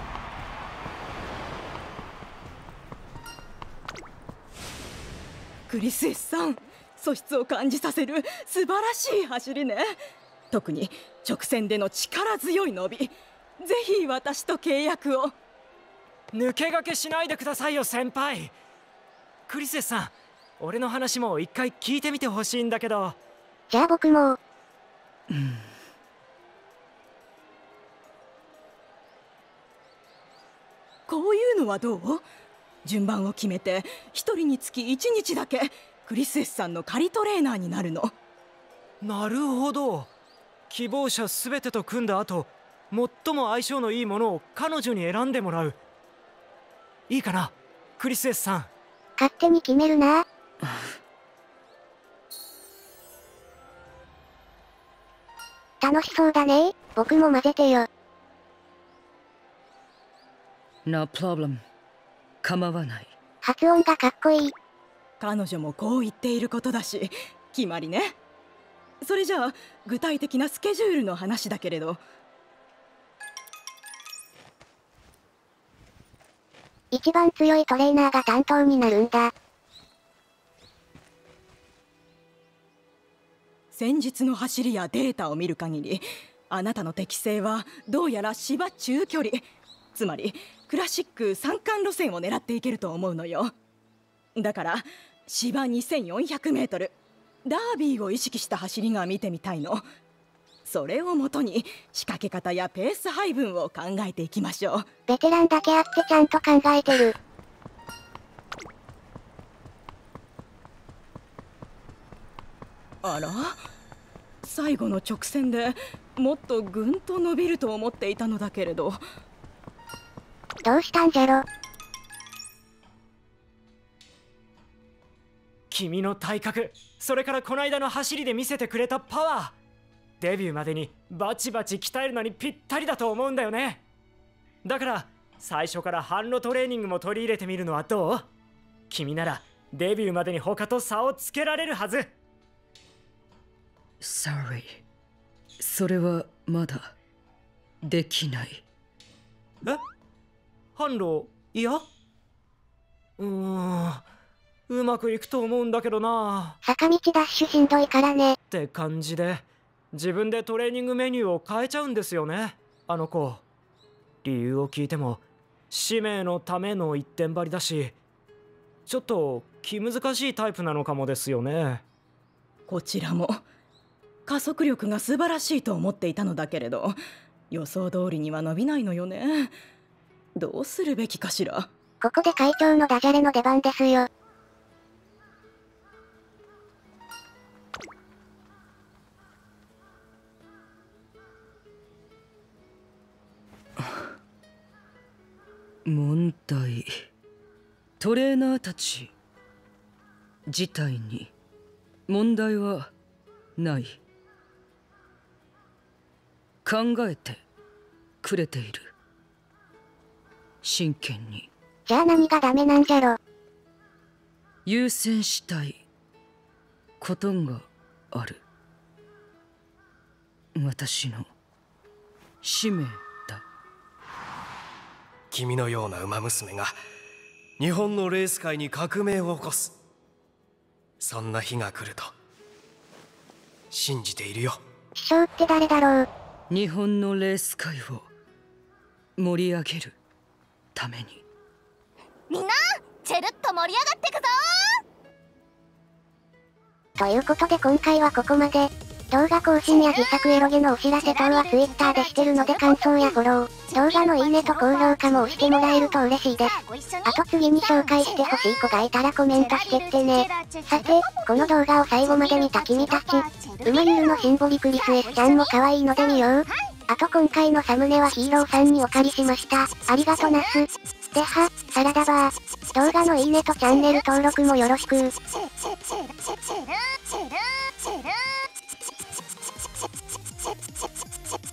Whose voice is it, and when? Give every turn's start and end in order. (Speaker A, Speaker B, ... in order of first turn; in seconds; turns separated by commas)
Speaker A: 5.7-9.9, Speaker A: 10.5-15.3, Speaker B: 16.3-18.5, Speaker B: 19.5-23.2, Speaker C: 23.7-24.4, Speaker D: 25.3-25.6, Speaker A: 31.1-32.2, Speaker A: 32.8-38.1, Speaker B: 39.0-40.1, Speaker B: 40.7-45.8, Speaker B: 47.1-48.7, Speaker C: 49.2-50.2, Speaker D: 50.6-50.9, Speaker C: 55.8-57.9, Speaker D: 60.9-61.6, Speaker D: 62.4-63.1, Speaker C: 63.4-64.5, Speaker A: 65.2-68.2, Speaker A: 69.0-72.0, Speaker C: 76.9-79.3, Speaker A: 83.7-89.4, Speaker A: 89.9-93.5, Speaker A: 94.3-99.8, Speaker A: 100.6-104.9, Speaker C: 105.1-107.1, Speaker A: 113.0-113.6, Speaker A: 114.4-119.0, Speaker C: 120.6-121.4, Speaker B: 125.7-129.5, Speaker B: 130.2-133.8, Speaker B: 134.6-138.3, Speaker B: 138.9-142.1, Speaker D: 144.0-144.8, Speaker D: 145.6-146.9, Speaker D: 147.8-148.6, Speaker B: 150.8-151.8, Speaker B: 153.2-154.0, Speaker B: 154.7-156.6, Speaker C: 156.6-158.4, Speaker B: 158.5-163.4, Speaker B: 164.2-167.9, Speaker B: 168.9-171.8, Speaker A: 172.7-173.4, Speaker A: 174.3-177.0, Speaker A: 177.5-179.5, Speaker A: 180.3-181.7, Speaker C: 182.0-184.1, Speaker D: 193.8-194.1, Speaker D: 195.8-196.9, Speaker D: 198.0-199.1, Speaker D: 200.5-201.3, Speaker D: 202.1-202.9, Speaker D: 203.6-204.0, Speaker D: 206.6-207.4, Speaker D: 208.2-208.9, Speaker D: 210.6-211.5, Speaker C: 211.9-213.2, Speaker D: 214.7-215.8, Speaker D: 217.0-218.4, Speaker D: 220.6-221.3, Speaker D: 222.4-223.4, Speaker E: 225.3-226.7, Speaker E: 227.6-229.7, Speaker E: 231.0-232.1, Speaker E: 233.7-234.6, Speaker C: 235.0-236.1, Speaker D: 236.5-238.1, Speaker D: 239.2-240.0, Speaker D: 240.8-241.2, Speaker F: 242.3-244.8, Speaker C: 247.0-256.5, Speaker F: 249.7-250.1, Speaker F: 250.9-258.5, Speaker C: 257.1-275.1, Speaker F: 259.3-266.7, Speaker F: 276.5-278.3